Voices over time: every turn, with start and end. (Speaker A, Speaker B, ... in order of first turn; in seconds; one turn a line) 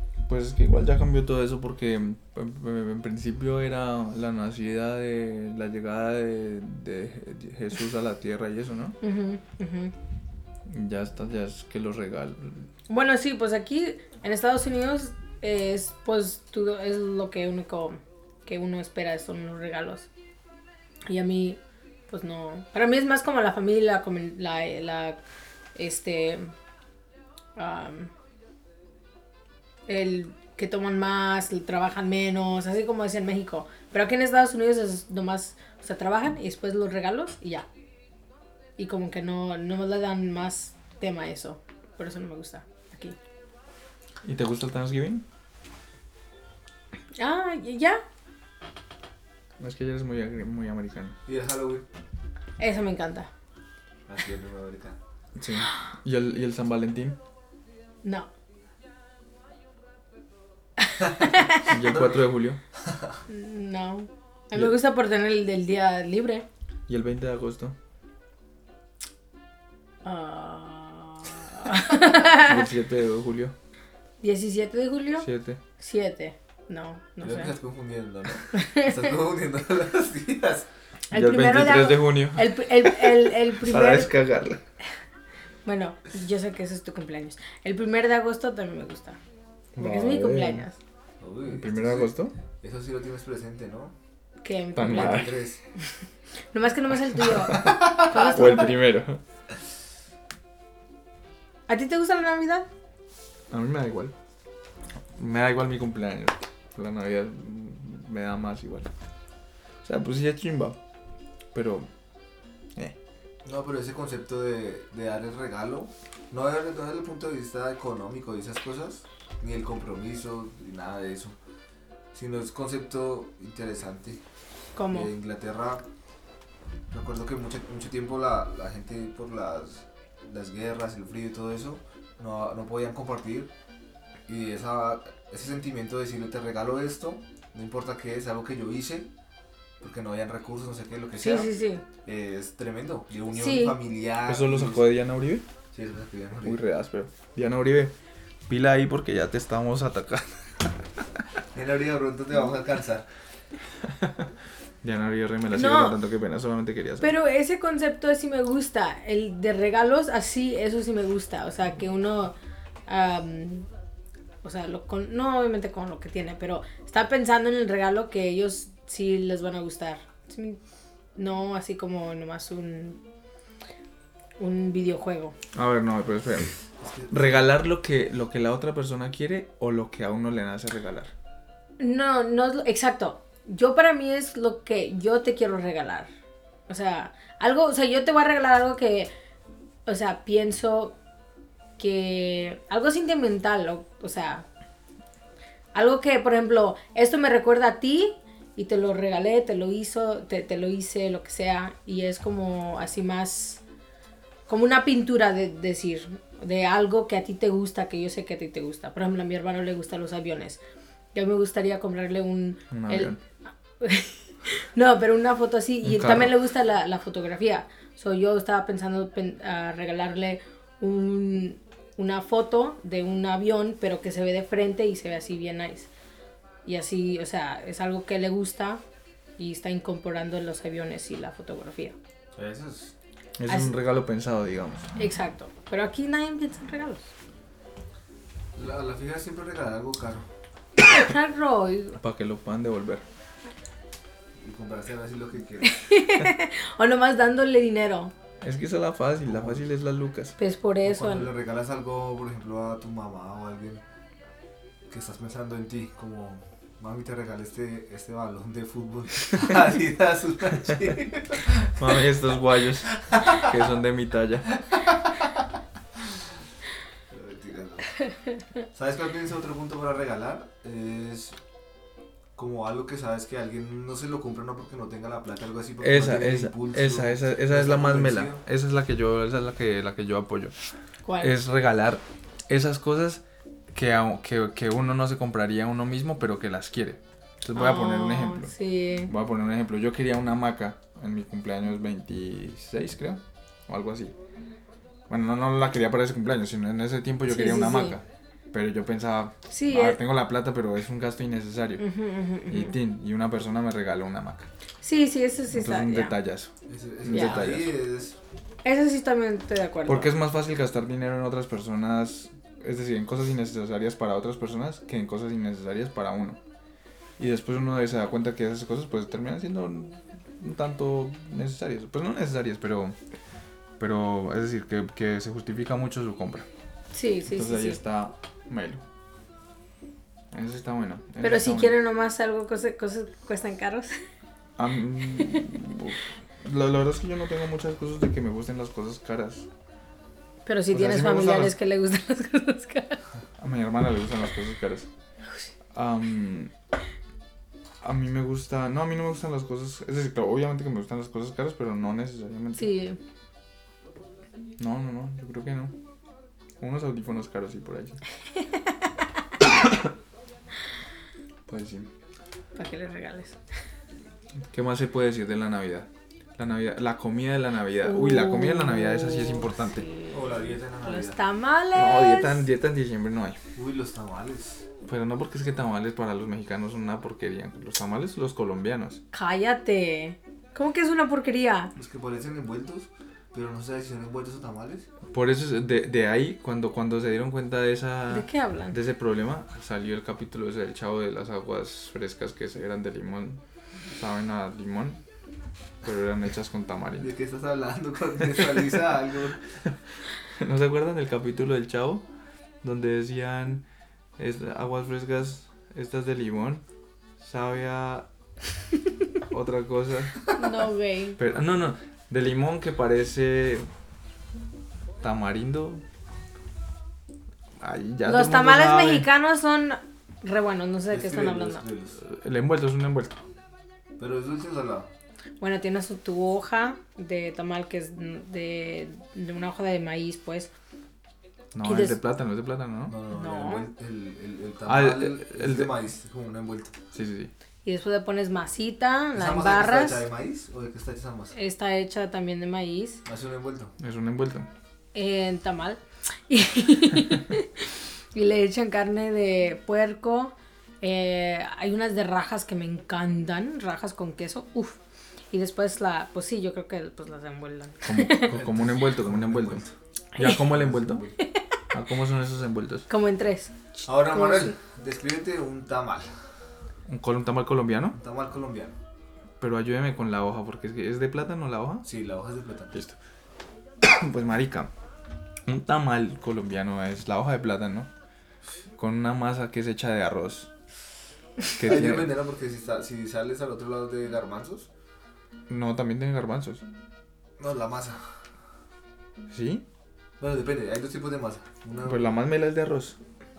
Speaker A: 0.3-9.0
Speaker B: 9.0-9.9
Speaker A: 10.7-12.7
Speaker B: 12.9-20.1
Speaker B: 21.1-25.2
Speaker B: 25.8-26.5
Speaker B: 27.6-28.1
Speaker B: 29.9-37.7
Speaker B: 38.8-43.2
Speaker A: 44.2-45.2
Speaker B: 47.2-48.0
Speaker A: 49.6-51.2
Speaker C: 51.2-51.9
Speaker B: 52.6-53.3
Speaker C: 54.1-55.0
Speaker A: 55.4-57.2
Speaker B: 58.0-58.3
Speaker C: 61.0-62.2
Speaker B: 61.2-61.6
Speaker A: 61.6-62.6
Speaker B: 63.3-66.5
Speaker A: 66.9-67.8
Speaker B: 70.0-72.7
Speaker A: 72.4-73.5
Speaker B: 74.2-75.3
Speaker A: 75.2-75.6
Speaker B: 75.8-77.5
Speaker C: 77.2-80.7
Speaker B: 78.5-79.1
Speaker B: 81.1-84.1
Speaker A: 81.1-84.6
Speaker B: 85.7-89.2
Speaker A: 89.8-90.7
Speaker B: 89.8-90.8
Speaker C: 91.2-93.9
Speaker A: 91.5-92.3
Speaker B: 94.4-95.8
Speaker A: 94.8-95.3
Speaker C: 94.8-95.6
Speaker B: 96.5-98.8
Speaker A: 97.5-99.2
Speaker C: 97.7-98.1
Speaker B: 101.7-102.7
Speaker A: 103.5-104.1
Speaker A: 105.1-108.9
Speaker A: 109.8-110.8
Speaker A: 111.5-111.9
Speaker C: 113.4-121.4
Speaker C: 122.1-124.2
Speaker B: 124.8-125.1
Speaker C: 124.9-125.8
Speaker C: 126.9-133.5
Speaker C: 134.3-139.1
Speaker C: 139.8-141.5
Speaker B: 141.2-141.8
Speaker C: 142.0-144.9
Speaker B: 143.3-143.8
Speaker A: 144.3-145.4
Speaker C: 145.7-146.6
Speaker A: 146.4-147.9
Speaker A: 148.5-150.8
Speaker C: 151.5-153.1
Speaker A: 153.8-154.3
Speaker A: 154.8-157.1
Speaker B: 155.5-155.9
Speaker B: 157.0-162.3
Speaker B: 162.9-163.7
Speaker B: 164.4-170.6
Speaker B: 171.2-173.0
Speaker B: 174.4-175.3
Speaker A: 175.5-176.6
Speaker C: 176.8-177.4
Speaker A: 177.1-181.1
Speaker B: 181.8-186.1
Speaker B: 186.7-189.1
Speaker B: 189.9-190.9
Speaker B: 191.8-194.4
Speaker B: 195.7-203.6
Speaker B: 204.5-210.6
Speaker B: 211.1-213.2
Speaker A: 212.7-213.2
Speaker B: 213.8-225.9
Speaker A: 215.8-216.3
Speaker B: 226.7-228.8
Speaker B: 229.4-231.9
Speaker C: 232.4-232.9
Speaker A: 233.4-234.9
Speaker B: 233.5-233.7
Speaker B: 235.0-237.1
Speaker C: 238.6-240.3
Speaker B: 240.8-242.0
Speaker A: 242.0-243.0
Speaker C: 244.4-245.8
Speaker B: 245.6-248.1
Speaker A: 248.4-250.3
Speaker C: 249.3-249.6
Speaker B: 250.4-251.3
Speaker C: 250.8-253.8
Speaker C: 254.9-262.0
Speaker A: 261.7-264.5
Speaker C: 262.9-263.5
Speaker C: 267.1-268.0
Speaker C: 268.7-271.4
Speaker C: 272.4-278.4
Speaker A: 275.8-280.5
Speaker B: 281.1-281.3
Speaker A: 281.2-288.5
Speaker B: 287.5-289.1
Speaker A: 289.1-294.1
Speaker A: 295.1-301.8
Speaker B: 297.3-298.0
Speaker B: 299.5-300.0
Speaker B: 301.8-302.7
Speaker A: 302.5-304.5
Speaker B: 304.8-306.2
Speaker A: 305.5-306.5
Speaker C: 306.7-308.2
Speaker A: 307.0-307.7
Speaker B: 307.1-307.4
Speaker B: 308.6-310.1
Speaker A: 309.9-316.4
Speaker A: 317.2-323.0
Speaker A: 323.8-326.5
Speaker B: 326.9-327.8
Speaker A: 327.3-328.8
Speaker A: 330.3-331.8
Speaker B: 331.2-334.0
Speaker A: 334.6-339.5
Speaker B: 340.4-343.0
Speaker A: 340.7-341.6
Speaker A: 343.4-344.9
Speaker A: 345.8-346.5
Speaker A: 347.8-352.7
Speaker B: 352.6-353.0
Speaker A: 354.6-355.7
Speaker A: 356.6-358.0
Speaker A: 359.4-359.9
Speaker A: 361.5-361.9
Speaker B: 362.6-363.4
Speaker A: 364.5-369.9
Speaker B: 367.8-372.4
Speaker C: 370.1-371.2
Speaker A: 371.7-373.4
Speaker C: 373.6-374.6
Speaker A: 374.8-379.0
Speaker B: 379.1-381.7
Speaker C: 381.8-384.9
Speaker A: 385.1-393.4
Speaker B: 388.1-388.8
Speaker A: 393.9-395.0
Speaker A: 395.8-397.1
Speaker C: 397.0-399.4
Speaker A: 400.3-402.1
Speaker A: 402.6-403.6
Speaker A: 404.2-406.6
Speaker A: 407.2-408.1
Speaker A: 409.3-410.3
Speaker B: 410.3-411.2
Speaker A: 411.2-413.7
Speaker A: 415.0-415.8
Speaker A: 417.6-419.1
Speaker B: 418.0-421.6
Speaker C: 420.9-422.0
Speaker A: 422.0-423.2
Speaker C: 424.0-424.9
Speaker B: 425.4-430.5
Speaker A: 431.5-432.9
Speaker B: 431.6-432.0
Speaker C: 432.9-436.8
Speaker B: 433.1-433.7
Speaker A: 434.7-435.8
Speaker A: 436.9-437.3
Speaker B: 437.6-440.0
Speaker C: 439.1-441.3
Speaker B: 441.3-443.0
Speaker C: 443.1-443.7
Speaker A: 443.8-444.5
Speaker B: 444.9-454.8
Speaker B: 455.3-458.3
Speaker A: 457.8-459.6
Speaker C: 458.3-459.7
Speaker B: 460.1-460.4
Speaker A: 460.1-461.0
Speaker C: 460.2-461.2
Speaker A: 461.7-462.9
Speaker B: 462.9-464.6
Speaker C: 463.9-466.1
Speaker A: 466.9-468.0
Speaker C: 467.9-468.8
Speaker A: 469.4-471.9
Speaker C: 471.8-472.8
Speaker A: 473.8-474.7
Speaker A: 475.4-477.9
Speaker A: 478.8-480.5
Speaker A: 481.6-482.1
Speaker C: 481.6-484.7
Speaker A: 485.5-486.6
Speaker C: 487.4-488.0
Speaker A: 489.3-489.6
Speaker C: 490.2-492.1
Speaker A: 491.8-493.0